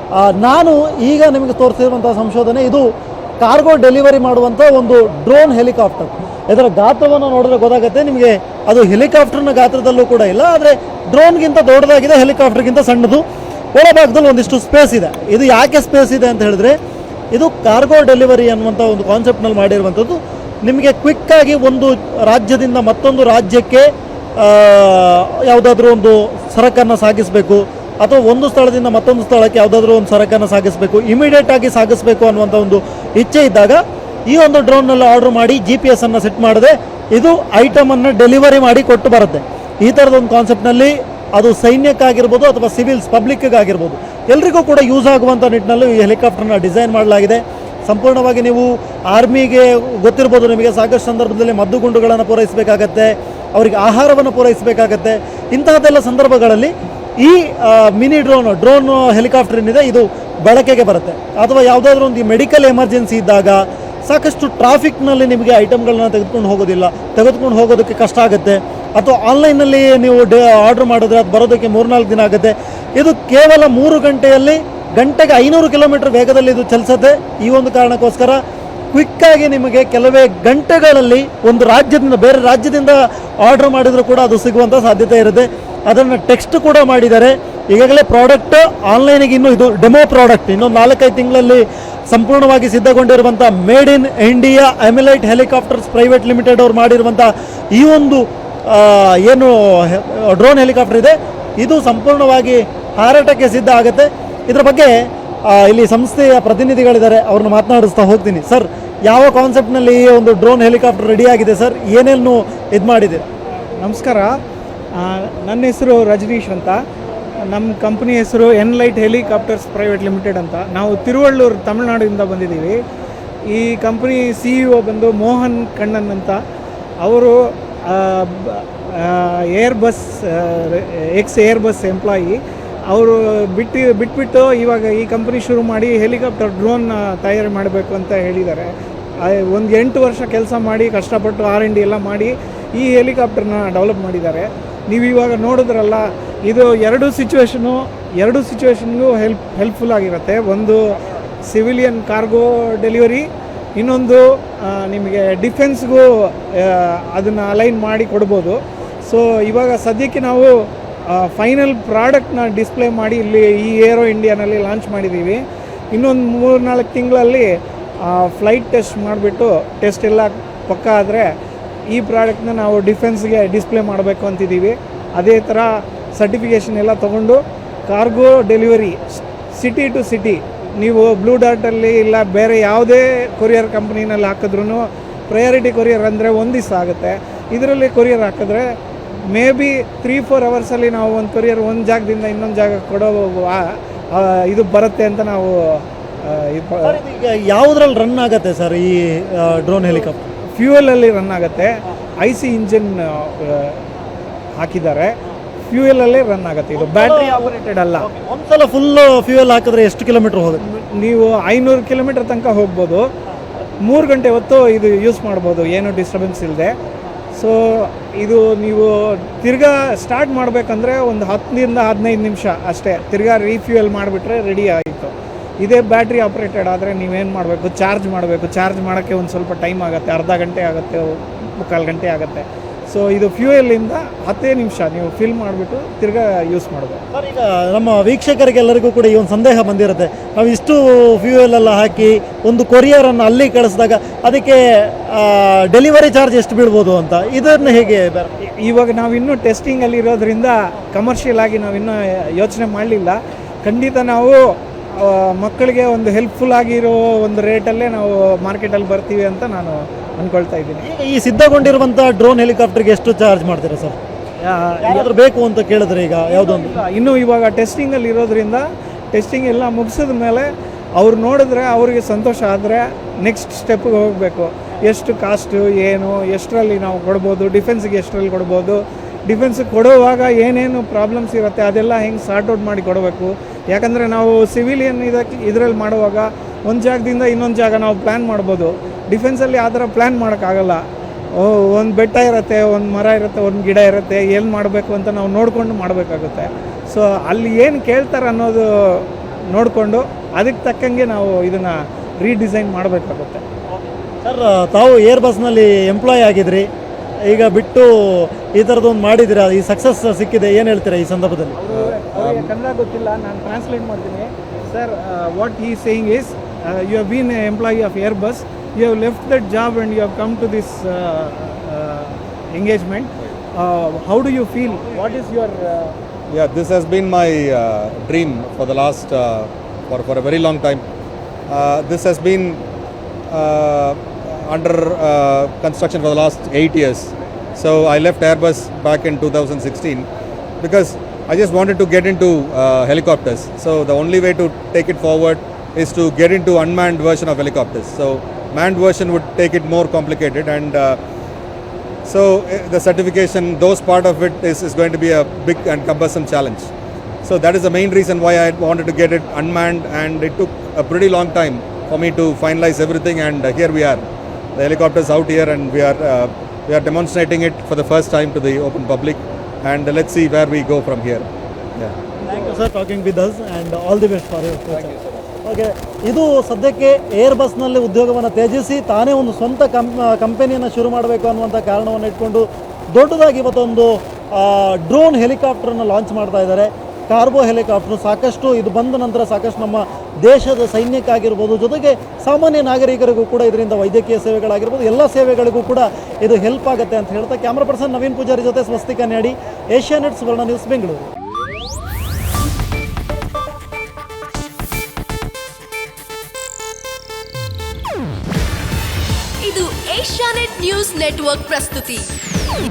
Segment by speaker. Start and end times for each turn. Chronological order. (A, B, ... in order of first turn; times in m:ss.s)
0:00.2-0:02.8 A
0:03.4-0:13.2 A
0:13.7-0:16.8 A
0:17.3-1:53.3 A
1:53.8-1:54.3 B
1:54.9-1:56.8 B
1:57.5-2:02.8 B
2:03.5-2:06.4 B
2:07.0-2:40.5 B
2:41.1-2:51.3 B
2:51.9-3:08.6 B
3:09.3-3:17.0 B
3:16.8-3:20.2 A
3:20.5-3:23.8 B
3:24.6-3:25.1 B
3:25.6-3:28.0 B
3:26.8-3:30.6 A
3:30.7-3:33.0 B
3:33.8-3:36.7 B
3:37.3-3:57.0 B
3:57.1-4:08.3 A
4:08.4-4:14.4 B
4:14.9-4:20.8 B
4:20.8-4:24.0 A
4:24.4-4:25.1 B
4:24.8-4:26.8 A
4:26.3-4:50.8 B
4:51.3-5:03.4 B
5:04.2-5:06.7 A
5:07.2-5:11.5 A
5:11.6-5:25.9 B
5:11.7-5:12.5 C
5:26.3-5:30.8 C
5:31.5-5:32.6 C
5:33.3-5:40.1 C
5:40.6-5:51.0 C
5:52.0-5:56.7 C
5:57.2-6:04.0 C
6:04.6-6:11.9 C
6:12.2-6:41.1 A
6:49.4-6:52.1 D